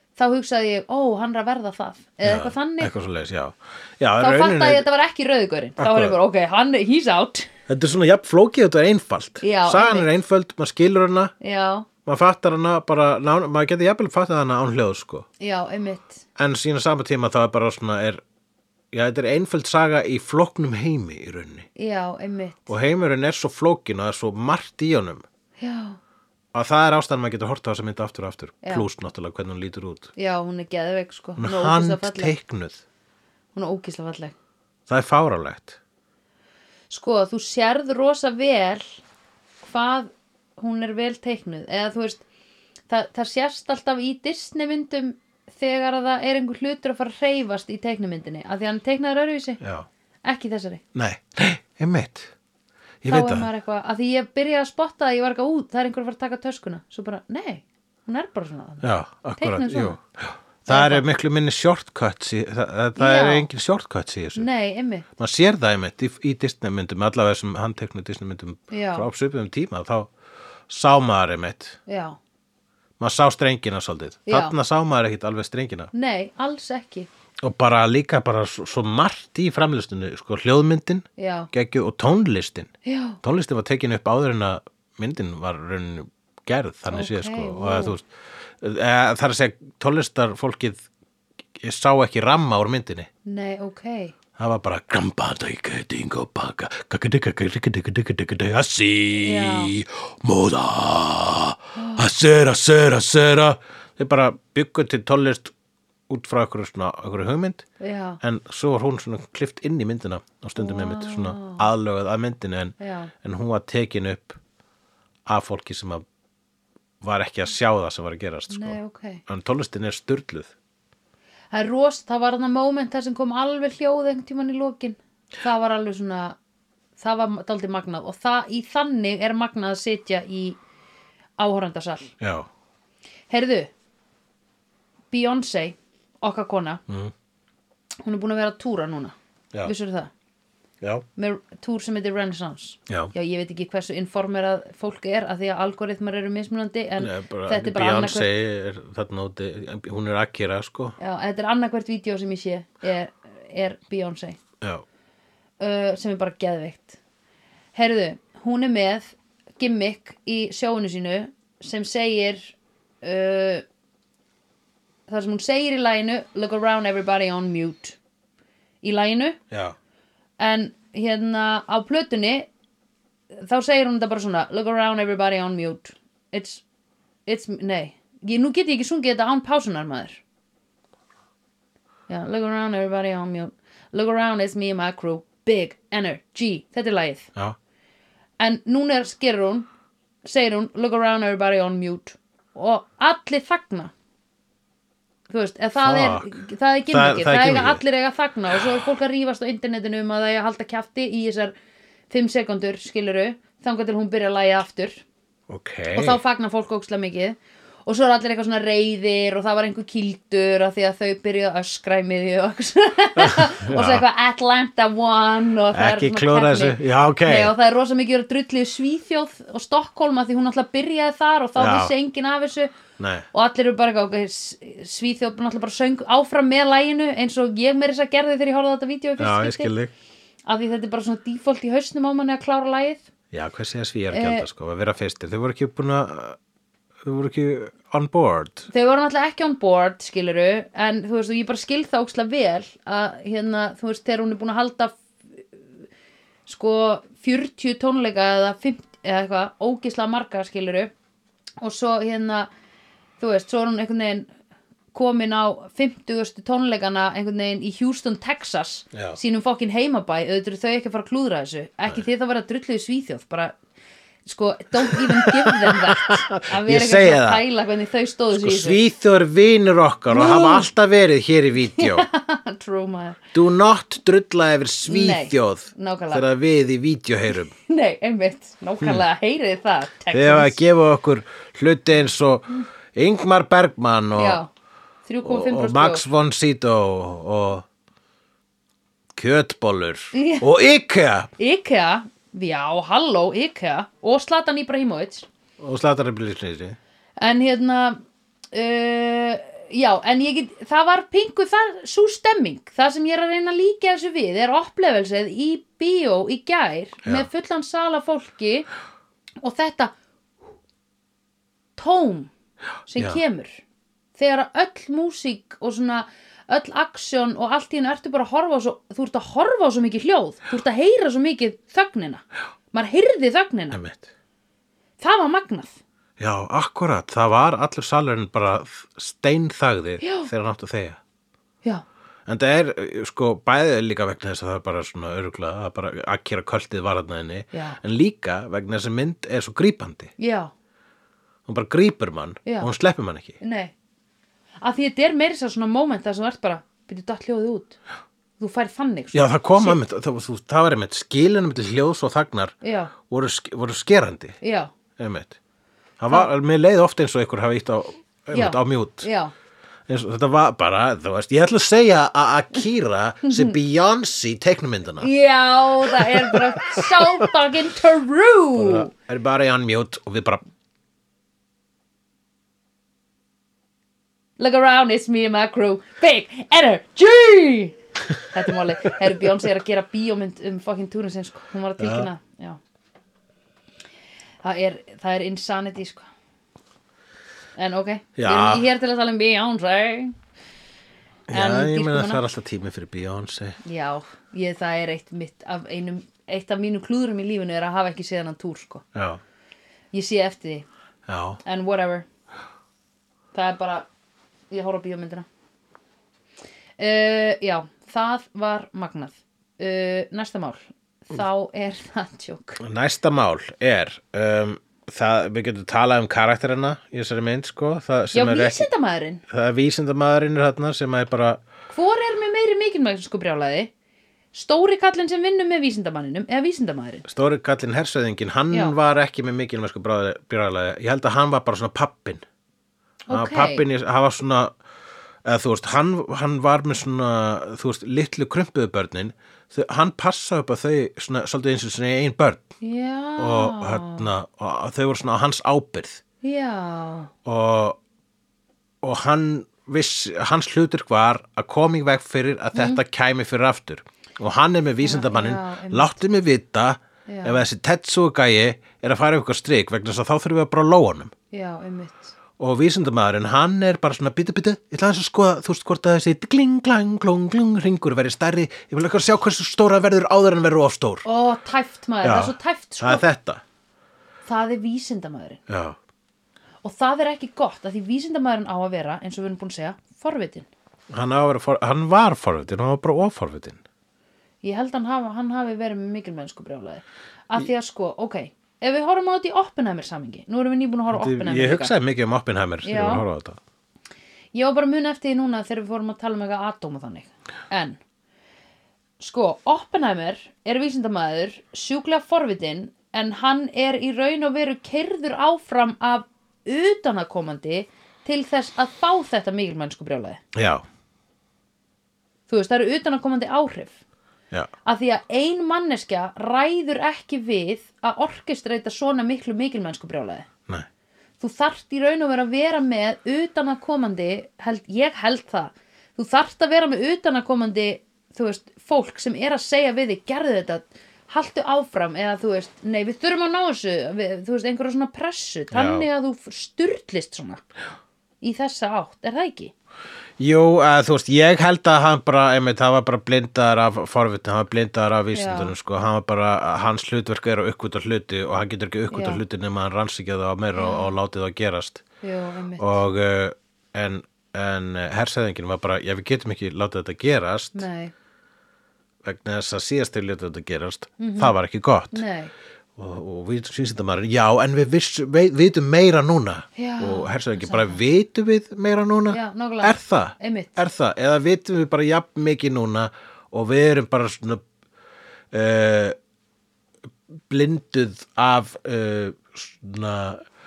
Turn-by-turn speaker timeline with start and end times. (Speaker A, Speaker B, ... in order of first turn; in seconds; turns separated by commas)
Speaker A: 0.2-2.9, Speaker B: 2.2-4.9, Speaker A: 4.2-7.5, Speaker B: 5.8-6.2, Speaker B: 7.7-11.3, Speaker A: 9.4-10.1, Speaker A: 11.4-11.9, Speaker B: 12.0-15.2, Speaker A: 15.4-16.2, Speaker B: 16.4-18.2, Speaker B: 18.9-21.7, Speaker A: 21.8-22.7, Speaker B: 22.7-25.2, Speaker A: 25.6-26.0, Speaker B: 26.5-30.1, Speaker A: 30.1-32.3, Speaker B: 31.4-32.8, Speaker A: 33.5-34.3, Speaker B: 34.9-35.8, Speaker A: 36.9-39.0, Speaker A: 39.6-42.2, Speaker A: 42.9-49.6, Speaker B: 49.6-49.9, Speaker A: 50.2-50.8, Speaker B: 50.9-52.3, Speaker B: 53.0-53.5, Speaker A: 53.1-58.9, Speaker B: 58.8-64.5, Speaker A: 59.4-60.0, Speaker A: 60.7-61.1, Speaker A: 63.0-63.5, Speaker A: 64.3-65.0, Speaker B: 65.2-70.1, Speaker A: 68.7-69.1, Speaker B: 70.7-71.8, Speaker A: 71.9-72.2, Speaker B: 73.0-75.9, Speaker A: 74.3-74.5, Speaker A: 75.9-77.1, Speaker B: 77.4-82.7, Speaker A: 81.2-81.5, Speaker A: 82.8-83.2, Speaker B: 83.2-88.0, Speaker A: 86.9-87.9, Speaker B: 88.6-90.8, Speaker B: 91.5-93.1, Speaker A: 93.2-94.1, Speaker B: 94.4-105.5, Speaker A: 99.2-99.7, Speaker A: 101.8-102.0, Speaker B: 106.1-107.6, Speaker A: 107.8-108.2, Speaker B: 108.2-114.4, Speaker A: 110.6-111.7, Speaker A: 112.8-113.1, Speaker B: 115.2-116.0, Speaker B: 117.0-120.5, Speaker A: 118.5-119.2, Speaker A: 121.5-126.4, Speaker A: 127.0-130.6, Speaker A: 131.4-132.1, Speaker B: 132.2-132.5, Speaker A: 133.3-133.7, Speaker A: 135.1-136.8, Speaker B: 136.9-137.1, Speaker A: 138.0-140.1, Speaker B: 140.8-141.1, Speaker A: 141.2-148.3, Speaker B: 147.0-150.9, Speaker A: 151.0-154.4, Speaker A: 155.6-157.0, Speaker A: 157.7-163.6, Speaker A: 165.1-168.0, Speaker A: 168.8-169.4, Speaker B: 169.5-169.8, Speaker A: 170.4-172.5, Speaker A: 173.3-176.6, Speaker A: 177.2-180.2, Speaker A: 182.1-187.3, Speaker A: 188.4-189.7, Speaker A: 190.2-193.9, Speaker A: 195.3-201.5, Speaker B: 195.8-196.4, Speaker B: 196.9-197.8, Speaker A: 202.1-205.0, Speaker B: 205.5-206.2, Speaker A: 205.9-222.7, Speaker B: 213.2-214.0, Speaker B: 215.7-217.5, Speaker B: 221.6-221.9, Speaker B: 223.0-223.2, Speaker A: 223.3-229.7, Speaker B: 229.2-229.9, Speaker A: 230.5-233.1, Speaker B: 233.3-236.4, Speaker A: 234.1-234.4, Speaker B: 237.0-238.7, Speaker A: 238.7-245.0, Speaker A: 246.5-250.9, Speaker A: 251.6-252.5, Speaker A: 253.2-254.3, Speaker A: 254.9-263.5, Speaker A: 264.2-268.8, Speaker B: 264.9-267.4, Speaker B: 268.3-272.1, Speaker A: 270.1-270.7, Speaker A: 271.7-273.2, Speaker B: 273.3-277.5, Speaker A: 274.9-276.2, Speaker A: 277.5-280.6, Speaker B: 280.1-284.4, Speaker A: 284.1-284.5, Speaker A: 285.1-286.0, Speaker B: 285.2-287.6, Speaker B: 289.1-291.3, Speaker A: 290.1-290.4, Speaker A: 291.4-295.3, Speaker B: 295.6-296.8, Speaker A: 297.2-298.0, Speaker A: 298.5-308.7, Speaker A: 309.4-309.9, Speaker A: 311.8-312.3, Speaker A: 312.9-313.6, Speaker B: 312.9-313.2, Speaker A: 314.2-323.8, Speaker B: 323.7-324.1, Speaker A: 325.0-325.8, Speaker B: 326.2-331.0, Speaker A: 330.0-330.3, Speaker B: 332.3-340.1, Speaker A: 337.5-337.8, Speaker A: 340.2-340.5, Speaker B: 341.5-343.4, Speaker A: 342.4-342.7, Speaker A: 343.4-343.7, Speaker A: 344.6-347.8, Speaker A: 348.4-349.8, Speaker B: 349.1-354.4, Speaker A: 352.6-352.9, Speaker A: 354.4-354.7, Speaker B: 355.0-355.4, Speaker B: 356.0-359.1, Speaker A: 358.3-359.3, Speaker B: 359.9-365.1, Speaker A: 363.3-363.5, Speaker A: 365.0-368.9, Speaker B: 365.8-367.3, Speaker B: 368.5-370.4, Speaker A: 374.4-382.6, Speaker B: 381.8-382.1, Speaker A: 384.4-386.1, Speaker A: 387.6-390.1, Speaker B: 388.1-388.7, Speaker B: 391.3-393.6, Speaker A: 391.3-392.2, Speaker A: 393.6-398.8, Speaker B: 398.9-399.2, Speaker A: 399.9-400.6, Speaker B: 401.1-401.4, Speaker A: 401.4-402.1, Speaker A: 403.3-403.9, Speaker A: 404.5-405.2, Speaker A: 406.8-412.6, Speaker B: 412.6-418.7, Speaker A: 418.1-419.2, Speaker B: 419.3-421.4, Speaker A: 421.7-423.7, Speaker A: 424.3-427.1, Speaker B: 427.1-432.2, Speaker A: 433.1-433.6, Speaker B: 433.1-434.5, Speaker B: 435.2-442.5, Speaker A: 442.6-444.1, Speaker B: 443.2-446.0, Speaker A: 446.2-447.1, Speaker B: 447.2-447.8, Speaker B: 448.8-461.1, Speaker A: 452.5-452.8, Speaker A: 454.8-455.9, Speaker A: 457.1-457.4, Speaker A: 461.3-462.1, Speaker B: 462.4-471.0, Speaker A: 471.0-473.0, Speaker B: 472.0-473.4, Speaker A: 474.2-475.4, Speaker B: 475.5-475.8, Speaker A: 476.6-480.5, Speaker B: 480.9-483.6, Speaker A: 484.4-491.7, Speaker B: 490.9-493.4, Speaker A: 492.6-493.0, Speaker A: 494.3-497.8, Speaker A: 499.0-510.2, Speaker B: 510.3-510.6, Speaker A: 512.3-513.8, Speaker A: 514.6-520.3, Speaker A: 521.2-537.4, Speaker B: 535.5-535.9, Speaker A: 538.2-539.5, Speaker B: 540.2-551.8, Speaker A: 545.1-545.5, Speaker A: 548.9-549.2, Speaker A: 550.5-550.9, Speaker A: 552.0-552.8, Speaker B: 552.6-557.6, Speaker A: 557.5-557.9, Speaker B: 559.0-562.0, Speaker A: 561.0-561.3, Speaker A: 561.9-562.3, Speaker B: 562.8-574.4, Speaker A: 566.5-567.8, Speaker A: 569.1-570.6, Speaker B: 575.3-576.0, Speaker B: 577.3-580.2